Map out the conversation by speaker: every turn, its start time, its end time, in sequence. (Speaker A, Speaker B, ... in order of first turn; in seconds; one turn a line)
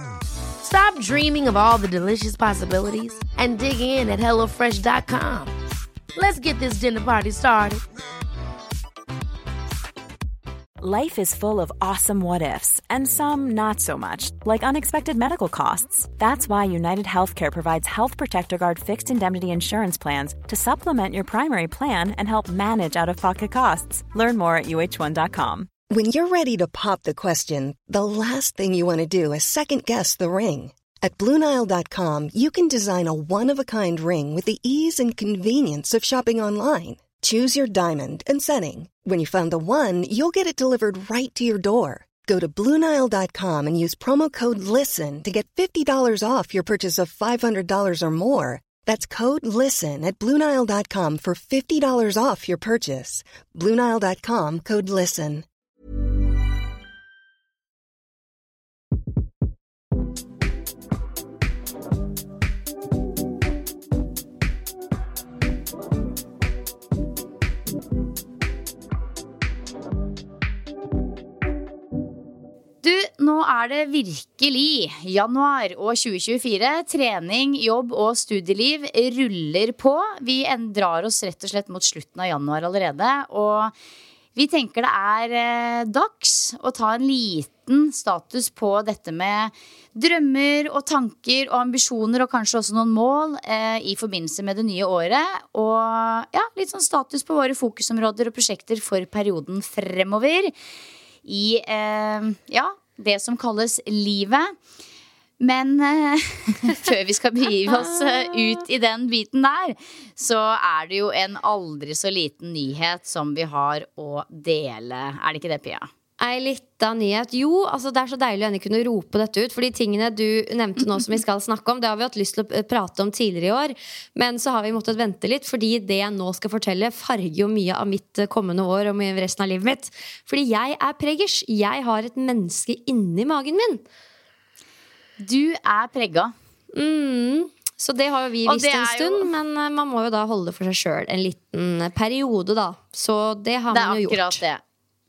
Speaker A: 0.6-5.5
Speaker A: 6.1-7.8
Speaker B: 10.8-25.7
Speaker C: 25.9-55.5
Speaker D: 72.8-83.7
Speaker D: 84.3-100.5
Speaker D: 101.2-104.5
Speaker D: 105.4-115.9
Speaker E: 107.7-108.5
Speaker E: 116.2-133.8
Speaker D: 135.2-136.3
Speaker E: 136.7-144.4
Speaker D: 138.4-139.3
Speaker D: 143.7-144.6